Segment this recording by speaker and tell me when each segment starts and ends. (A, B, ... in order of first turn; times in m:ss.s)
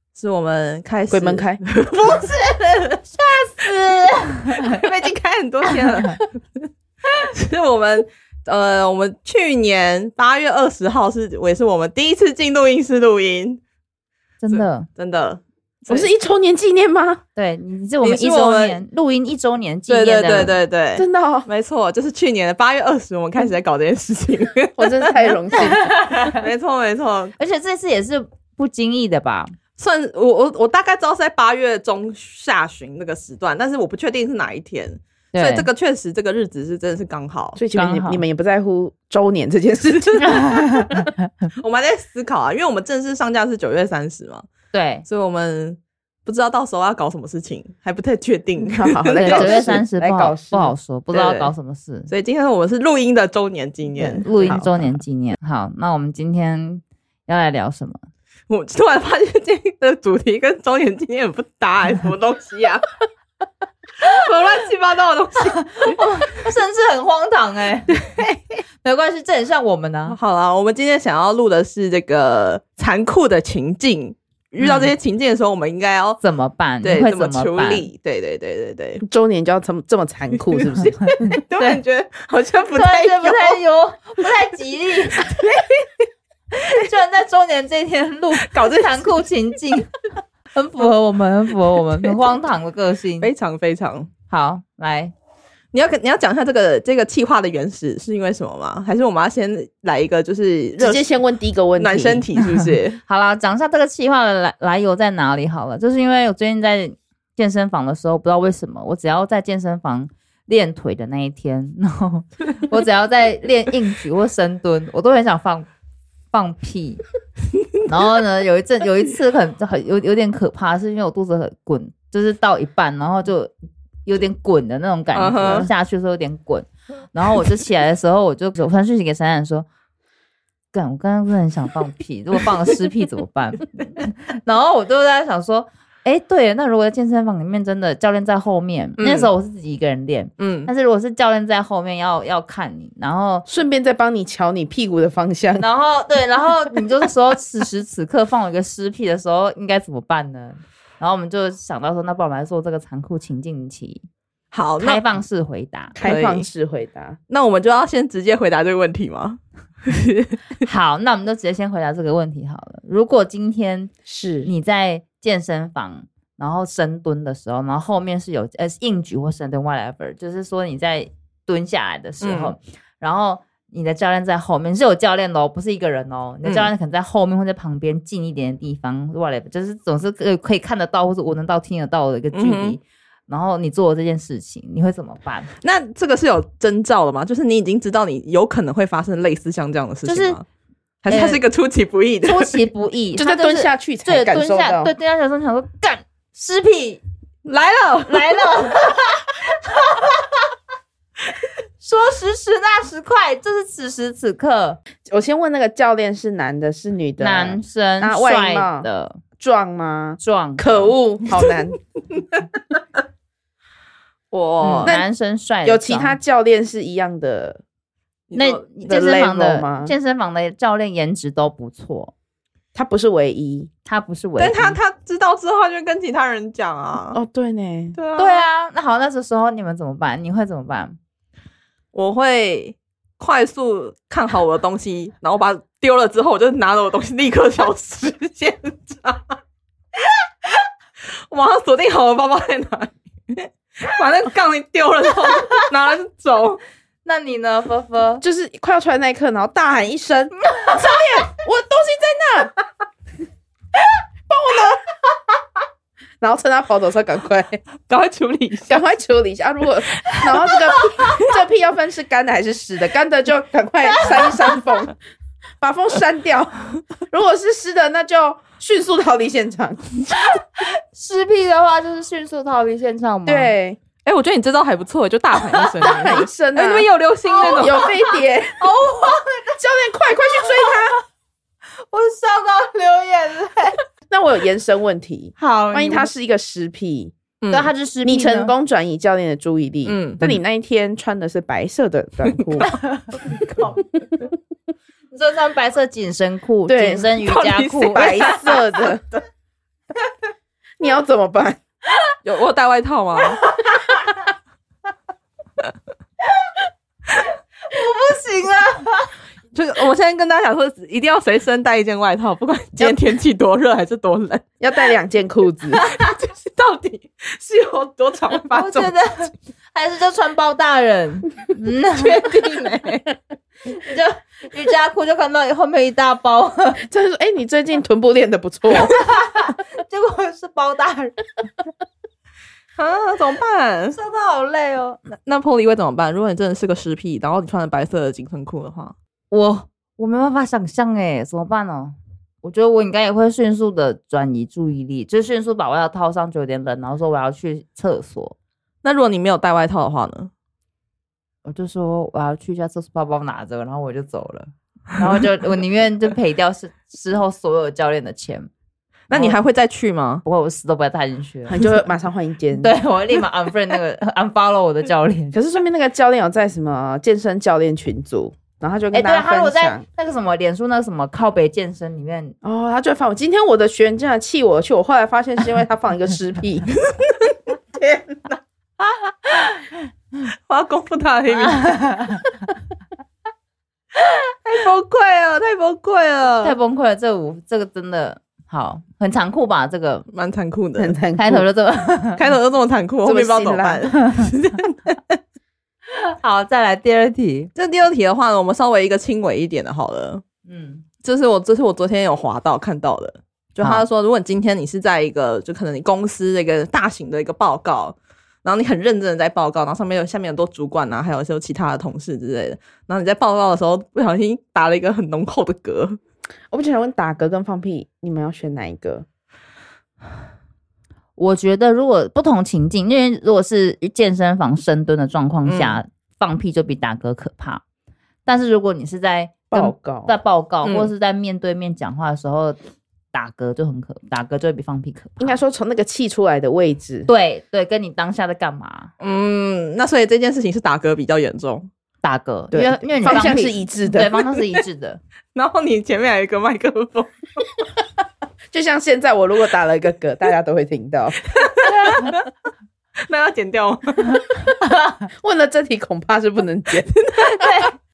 0:00.2-0:03.8 A
0:01.1-0:01.6 B
0:03.2-0:04.8 C
0:04.6-0:13.6 A
0:14.4-0:14.9 C
0:14.5-0:16.1 A
0:15.9-0:17.2 B
0:17.3-0:20.6 C
0:18.0-0:18.8 A
0:19.9-0:25.3 A
0:21.0-0:21.5 B
0:24.8-0:26.2 B
0:25.5-0:26.4 C
0:26.3-0:27.3 A
0:27.4-0:29.6 C
0:29.8-0:37.6 A
0:35.3-0:35.7 C
0:37.6-0:41.0 B
0:37.7-0:38.2 C
0:40.0-0:41.0 A
0:40.2-0:41.0 C
0:41.6-0:44.4 A
0:44.7-0:45.0 C
0:45.1-0:49.6 A
0:48.7-0:50.7 B
0:49.2-0:52.1 C
0:51.1-0:51.5 A
0:52.1-0:54.7 A
0:54.0-0:54.7 B
0:54.2-0:58.0 C
0:58.5-1:02.8 A
1:04.0-1:06.0 A
1:05.5-1:08.2 C
1:08.8-1:10.2 C
1:10.1-1:16.2 A
1:14.6-1:14.9 C
1:16.2-1:17.9 C
1:16.8-1:19.0 A
1:19.0-1:21.2 B
1:20.5-1:23.6 A
1:21.2-1:21.8 C
1:22.7-1:25.4 C
1:25.2-1:26.0 A
1:26.5-1:29.9 C
1:28.4-1:29.2 A
1:30.5-1:33.3 C
1:33.2-1:34.1 A
1:34.3-1:35.1 C
1:35.7-1:41.1 A
1:40.8-1:42.3 B
1:41.8-1:43.0 A
1:42.5-1:55.7 C
1:56.3-1:57.0 C
1:57.8-2:03.5 C
2:04.0-2:09.6 C
2:05.1-2:05.7 A
2:10.7-2:23.5 C
2:19.0-2:19.3 A
2:20.4-2:20.7 A
2:23.5-2:25.6 B
2:25.6-2:34.0 C
2:34.5-2:35.0 A
2:34.8-2:36.0 C
2:35.9-2:37.2 B
2:36.0-2:36.5 A
2:37.3-2:40.4 A
2:40.6-2:43.9 C
2:44.0-2:44.5 B
2:44.4-3:05.5 C
2:52.2-2:52.5 A
2:56.4-2:56.7 A
3:02.3-3:02.8 A
3:05.6-3:10.4 A
3:10.0-3:10.4 C
3:11.0-3:12.5 A
3:11.1-3:11.4 C
3:12.2-3:17.0 C
3:13.2-3:14.9 B
3:17.4-3:18.6 A
3:18.1-3:20.5 C
3:21.8-3:24.8 C
3:25.1-3:28.9 B
3:27.2-3:29.2 C
3:29.4-3:31.8 B
3:30.2-3:30.9 C
3:34.3-3:34.9 A
3:34.6-3:36.2 C
3:34.8-3:35.1 B
3:35.6-3:37.6 B
3:38.3-3:38.6 A
3:38.3-3:42.1 C
3:38.9-3:39.9 B
3:42.7-3:43.7 B
3:43.8-3:44.8 C
3:44.4-3:47.2 A
3:47.1-3:48.0 B
3:48.0-3:48.4 A
3:48.2-3:51.0 C
3:51.9-3:59.4 A
4:00.0-4:00.6 A
4:01.3-4:06.6 A
4:07.0-4:08.2 C
4:08.2-4:12.5 B
4:10.4-4:10.8 C
4:14.3-4:14.8 B
4:16.2-4:17.6 B
4:17.9-4:18.8 A
4:18.7-4:25.0 B
4:23.9-4:24.6 C
4:25.6-4:30.0 B
4:30.4-4:33.5 C
4:33.2-4:33.8 B
4:34.0-4:37.9 A
4:35.5-4:35.9 C
4:35.8-4:38.6 B
4:37.3-4:39.6 C
4:39.6-4:40.9 B
4:40.2-4:41.0 C
4:41.9-4:43.8 C
4:44.1-4:47.1 B
4:45.4-4:46.1 C
4:47.4-4:47.7 A
4:47.5-4:48.5 C
4:48.0-4:52.7 B
4:49.8-4:50.3 A
4:52.3-4:52.6 A
4:52.6-4:53.8 C
4:55.1-4:58.3 C
4:56.7-4:57.2 B
4:57.2-4:58.9 A
4:57.9-4:59.0 B
5:00.8-5:01.6 B
5:02.2-5:03.4 A
5:03.4-5:04.2 C
5:07.1-5:09.1 C
5:09.5-5:14.4 A
5:14.6-5:15.8 B
5:15.8-5:16.1 C
5:15.9-5:19.0 A
5:18.5-5:22.8 C
5:22.0-5:23.0 A
5:23.6-5:26.8 C
5:26.8-5:28.9 B
5:28.7-5:31.2 C
5:32.8-5:34.0 A
5:33.9-5:35.0 C
5:35.2-5:38.9 A
5:39.3-5:48.3 C
5:48.8-5:50.3 A
5:51.4-5:58.5 C
5:59.1-6:00.2 A
6:00.2-6:01.7 C
6:01.5-6:02.8 B
6:02.6-6:05.4 C
6:05.3-6:09.8 B
6:08.9-6:12.3 C
6:12.4-6:16.7 B
6:16.9-6:18.4 A
6:20.3-6:21.7 A
6:21.3-6:22.2 C
6:24.0-6:26.6 A
6:26.4-6:30.0 C
6:30.1-6:31.0 A
6:30.8-6:31.4 B
6:31.2-6:32.2 C
6:32.2-6:35.2 A
6:33.0-6:33.9 B
6:34.0-6:34.3 C
6:35.9-6:37.5 C
6:37.5-6:40.2 A
6:40.4-6:40.8 C
6:41.0-6:56.0 A
6:56.5-6:59.0 B
7:01.2-7:07.6 C
7:05.4-7:05.8 A
7:08.2-7:12.6 C
7:09.5-7:10.1 B
7:10.6-7:10.9 A
7:13.1-7:15.3 C
7:15.2-7:17.1 B
7:17.1-7:18.9 C
7:19.0-7:21.7 A
7:22.0-7:25.0 C
7:22.5-7:24.1 B
7:25.3-7:27.4 A
7:28.5-7:31.2 B
7:31.3-7:32.3 A
7:33.1-7:34.2 A
7:34.6-7:35.0 C
7:35.2-7:36.9 B
7:36.9-7:37.6 A
7:37.2-7:37.7 C